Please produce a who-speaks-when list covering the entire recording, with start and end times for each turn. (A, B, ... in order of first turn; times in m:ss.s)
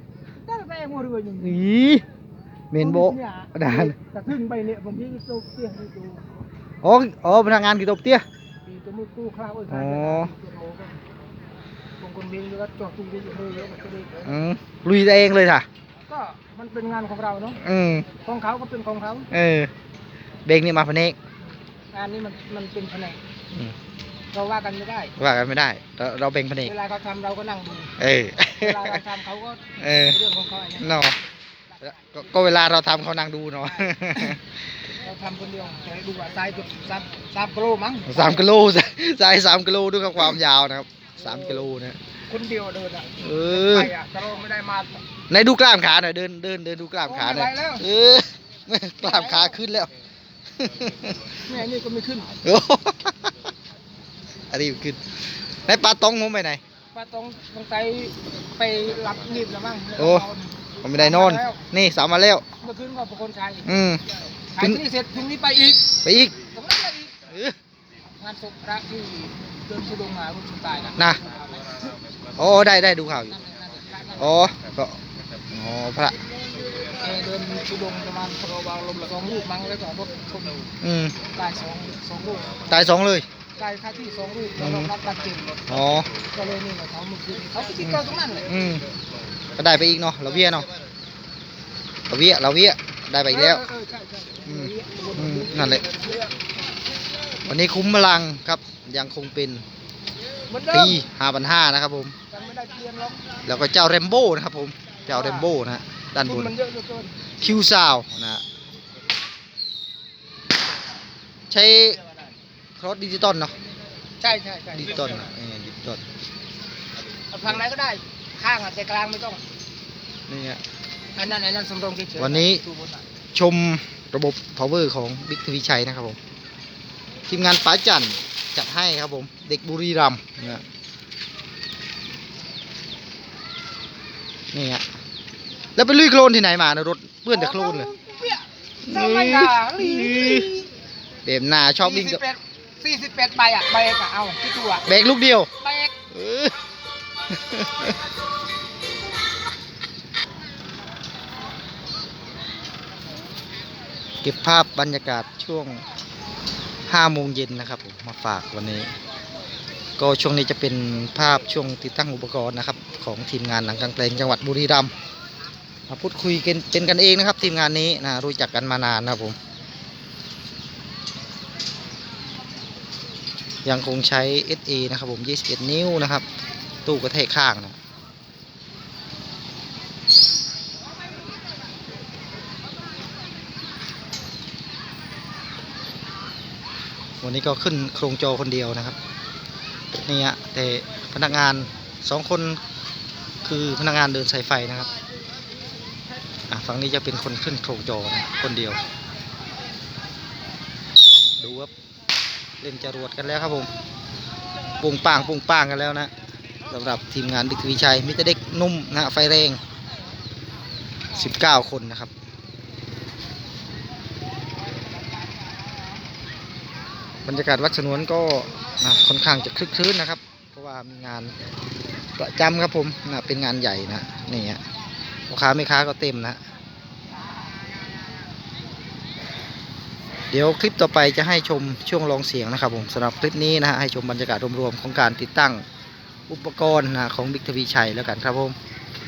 0:00.3-0:01.6 A
0:01.4-0:02.0 B
0:02.7-0:04.0 B
0:02.8-0:06.2 A
0:06.8-0:08.2 B
0:08.6-0:11.0 A
0:09.7-0:10.3 B
0:12.0-0:14.3 A
0:14.2-0:15.6 B
0:16.1-0:17.6 A
0:17.6-0:18.1 B
0:18.2-0:19.3 A
0:19.3-0:19.7 B
0:20.4-0:21.2 B
0:21.9-0:23.2 A
0:24.3-0:25.1 A
0:25.2-0:26.7 B
0:26.6-0:27.9 A
0:28.0-0:29.0 B
0:28.5-0:31.1 A
0:29.8-0:30.2 B
0:30.8-0:31.2 B
0:31.8-0:34.4 B
0:33.7-0:34.3 A
0:34.9-0:38.5 A
0:38.0-0:42.0 B
0:42.3-0:45.0 A
0:43.2-0:43.9 B
0:45.3-0:49.9 B
0:47.0-0:47.8 A
0:49.0-0:49.6 A
0:50.6-0:51.3 B
0:51.4-0:52.4 A
0:52.4-0:53.3 B
0:54.5-0:55.0 B
0:55.6-0:56.6 B
0:56.9-1:01.6 A
1:00.0-1:00.3 B
1:00.8-1:02.4 B
1:02.6-1:03.7 A
1:03.6-1:04.0 B
1:04.5-1:07.2 A
1:06.0-1:06.3 B
1:07.3-1:07.6 B
1:08.2-1:11.9 A
1:11.0-1:11.2 B
1:12.4-1:13.4 B
1:13.3-1:14.3 A
1:14.2-1:16.2 B
1:16.9-1:20.7 A
1:20.8-1:21.2 B
1:21.3-1:22.9 A
1:22.7-1:23.3 B
1:23.6-1:25.6 A
1:24.6-1:24.9 B
1:25.7-1:26.1 B
1:26.3-1:28.5 A
1:27.8-1:28.8 B
1:29.6-1:30.7 B
1:32.1-1:33.6 B
1:33.3-1:36.3 A
1:34.4-1:35.8 B
1:37.4-1:39.6 B
1:40.5-1:41.0 A
1:40.7-1:42.1 B
1:42.3-1:43.3 A
1:43.4-1:46.5 B
1:45.1-1:45.5 A
1:46.2-1:47.2 A
1:47.4-1:48.4 B
1:51.5-1:52.0 B
1:52.8-1:53.5 B
1:54.2-1:55.2 A
1:54.7-1:56.0 B
1:57.3-1:59.4 A
2:00.3-2:00.6 B
2:01.1-2:03.0 A
2:02.2-2:02.6 B
2:03.3-2:06.2 B
2:07.3-2:10.6 B
2:14.5-2:14.8 B
2:15.8-2:17.9 B
2:17.3-2:20.7 A
2:18.8-2:20.5 B
2:21.2-2:22.2 B
2:21.8-2:24.8 A
2:24.8-2:25.5 B
2:25.6-2:25.9 A
2:26.1-2:26.6 B
2:27.3-2:27.9 B
2:34.2-2:35.8 B
2:36.9-2:38.9 B
2:40.0-2:44.9 B
2:45.9-2:49.4 B
2:53.6-2:56.2 B
2:56.8-2:57.8 B
3:07.2-3:09.0 B
3:10.0-3:12.6 B
3:13.4-3:14.9 B
3:16.5-3:18.8 B
3:21.4-3:21.7 B
3:22.6-3:23.7 B
3:24.8-3:26.1 B
3:26.7-3:29.6 B
3:31.1-3:32.1 B
3:37.2-3:41.3 B
3:42.2-3:44.6 B
3:45.3-3:46.4 B
3:50.3-3:55.6 B
3:56.3-3:58.6 B